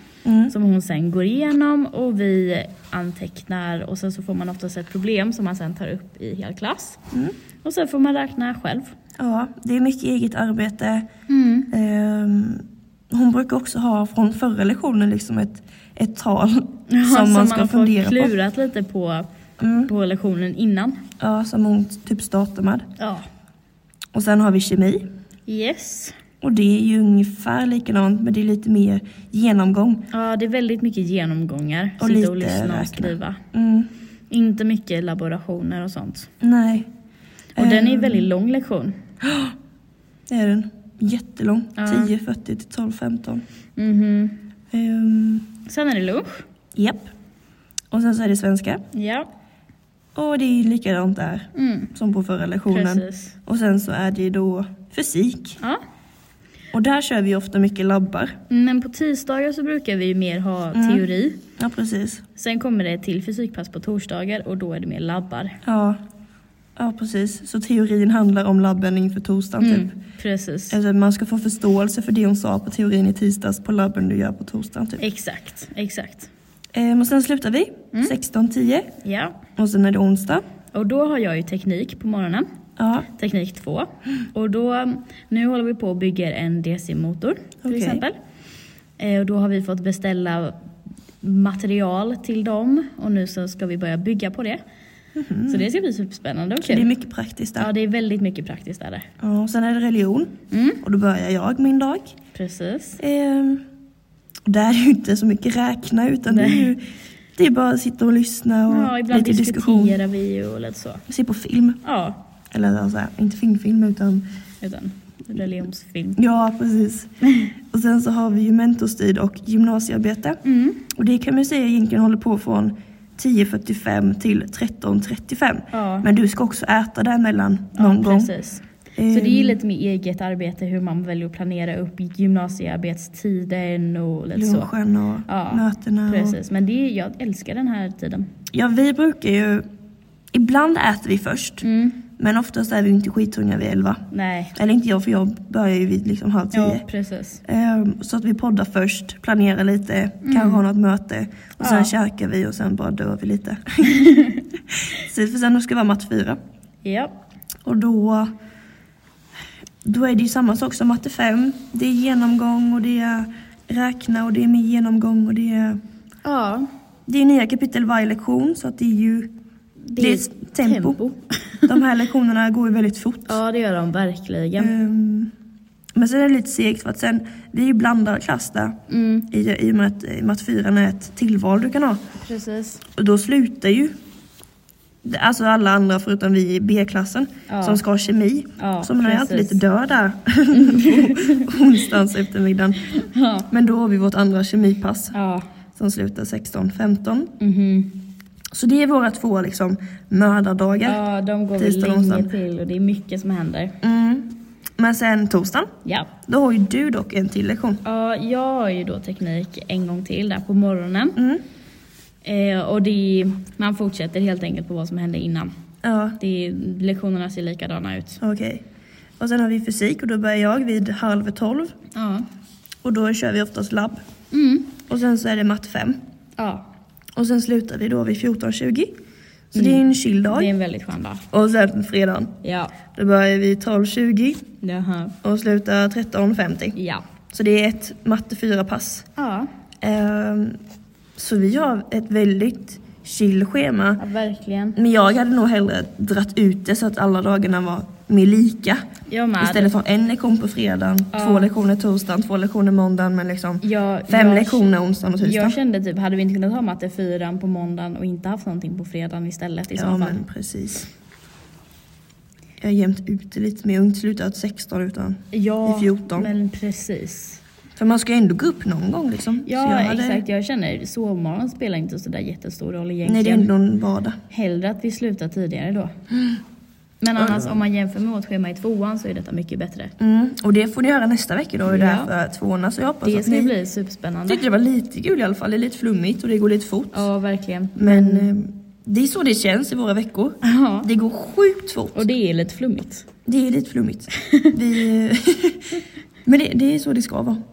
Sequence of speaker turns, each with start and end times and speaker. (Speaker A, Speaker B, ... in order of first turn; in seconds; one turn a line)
Speaker A: 0.2-0.5
Speaker B: 0.5-7.0
Speaker B: 7.6-8.9
Speaker A: 9.2-11.1
Speaker B: 11.3-11.7
Speaker A: 11.7-18.3
Speaker B: 16.9-19.3
Speaker A: 19.6-19.9
Speaker B: 19.9-21.0
Speaker A: 21.2-22.9
Speaker B: 23.0-23.2
Speaker A: 24.1-25.0
Speaker B: 25.5-26.1
Speaker A: 26.4-30.0
Speaker B: 30.1-33.4
Speaker A: 32.0-33.9
Speaker B: 34.3-36.3
Speaker A: 36.4-36.9
Speaker A: 37.6-38.3
Speaker B: 37.6-39.0
Speaker A: 39.2-39.5
Speaker A: 40.3-43.4
Speaker B: 41.8-42.1
Speaker B: 43.8-44.4
Speaker A: 44.7-45.5
Speaker B: 45.7-46.4
Speaker A: 46.8-47.1
Speaker A: 47.9-48.8
Speaker B: 48.9-49.3
Speaker A: 50.1-55.6
Speaker B: 51.5-51.9
Speaker B: 52.7-53.3
Speaker A: 56.7-58.4
Speaker B: 58.5-61.4
Speaker A: 60.7-61.0
Speaker A: 61.6-62.2
Speaker B: 62.4-65.6
Speaker A: 65.7-66.0
Speaker A: 66.8-70.0
Speaker B: 69.6-70.8
Speaker A: 70.7-75.0
Speaker B: 75.0-76.3
Speaker A: 76.7-78.9
Speaker B: 79.0-79.4
Speaker A: 79.5-80.4
Speaker B: 80.7-82.5
Speaker A: 82.8-83.1
Speaker B: 83.2-88.2
Speaker A: 87.6-88.0
Speaker B: 89.0-90.6
Speaker B: 91.2-94.6
Speaker A: 95.2-95.7
Speaker B: 95.5-96.9
Speaker A: 96.6-97.7
Speaker B: 97.6-99.0
Speaker A: 99.2-102.2
Speaker B: 100.5-100.8
Speaker B: 102.3-103.0
Speaker A: 103.0-103.6
Speaker A: 104.5-106.8
Speaker B: 106.3-106.7
Speaker A: 107.4-110.0
Speaker B: 108.7-111.0
Speaker A: 111.1-111.8
Speaker B: 111.8-112.2
Speaker A: 112.5-114.2
Speaker B: 114.6-116.2
Speaker A: 116.2-117.1
Speaker A: 117.7-128.3
Speaker B: 120.4-120.8
Speaker B: 125.7-126.1
Speaker B: 127.7-134.7
Speaker A: 129.0-129.6
Speaker A: 134.3-136.4
Speaker B: 135.3-138.3
Speaker A: 138.5-139.7
Speaker A: 140.3-141.6
Speaker B: 141.6-142.0
Speaker A: 142.2-146.8
Speaker B: 144.1-144.5
Speaker B: 146.5-147.4
Speaker A: 147.4-154.3
Speaker B: 150.2-150.6
Speaker B: 151.6-151.9
Speaker B: 154.0-154.4
Speaker A: 154.8-156.4
Speaker B: 156.8-157.2
Speaker A: 157.7-158.3
Speaker A: 159.8-165.8
Speaker B: 166.2-166.7
Speaker A: 167.1-169.3
Speaker B: 169.9-171.7
Speaker A: 170.0-171.0
Speaker A: 171.7-173.4
Speaker B: 173.3-174.7
Speaker A: 174.6-175.3
Speaker A: 176.0-178.8
Speaker B: 178.9-179.3
Speaker A: 179.3-182.0
Speaker B: 182.2-182.8
Speaker A: 183.0-183.9
Speaker A: 185.0-192.9
Speaker B: 187.5-187.8
Speaker B: 188.6-189.6
Speaker B: 190.5-191.5
Speaker B: 192.9-193.5
Speaker A: 193.5-195.2
Speaker B: 195.1-195.4
Speaker A: 195.8-197.3
Speaker B: 197.4-198.0
Speaker A: 198.5-201.0
Speaker B: 200.8-203.8
Speaker A: 201.6-202.3
Speaker A: 203.8-205.7
Speaker B: 205.8-206.1
Speaker A: 206.2-207.8
Speaker B: 207.8-211.2
Speaker A: 211.2-211.4
Speaker B: 212.2-215.5
Speaker A: 215.8-216.2
Speaker B: 216.2-218.2
Speaker A: 218.2-218.6
Speaker A: 219.2-221.7
Speaker B: 221.9-222.3
Speaker A: 222.8-224.0
Speaker B: 224.3-224.7
Speaker A: 224.9-226.0
Speaker B: 226.4-226.7
Speaker A: 227.2-228.9
Speaker A: 229.5-230.5
Speaker B: 229.5-231.2
Speaker A: 231.3-232.3
Speaker B: 232.4-232.7
Speaker A: 232.9-234.4
Speaker B: 234.6-235.2
Speaker A: 235.2-236.8
Speaker B: 236.8-237.0
Speaker A: 237.3-239.1
Speaker B: 239.2-239.5
Speaker A: 239.8-240.6
Speaker A: 241.2-244.0
Speaker B: 244.0-244.8
Speaker A: 244.8-248.8
Speaker B: 249.1-249.7
Speaker A: 249.4-255.6
Speaker B: 251.1-251.5
Speaker B: 253.6-260.2
Speaker A: 259.8-260.9
Speaker A: 262.6-266.3
Speaker B: 265.3-267.4
Speaker A: 267.8-270.2
Speaker B: 269.4-273.5
Speaker A: 273.0-274.2
Speaker B: 274.3-275.9
Speaker B: 277.0-279.9
Speaker A: 277.1-277.6
Speaker A: 280.0-283.5
Speaker B: 281.6-282.1
Speaker B: 283.0-284.4
Speaker A: 284.3-287.1
Speaker B: 286.9-288.3
Speaker A: 287.8-292.1
Speaker B: 290.4-290.9
Speaker B: 291.9-293.1
Speaker A: 293.2-297.4
Speaker B: 294.1-294.6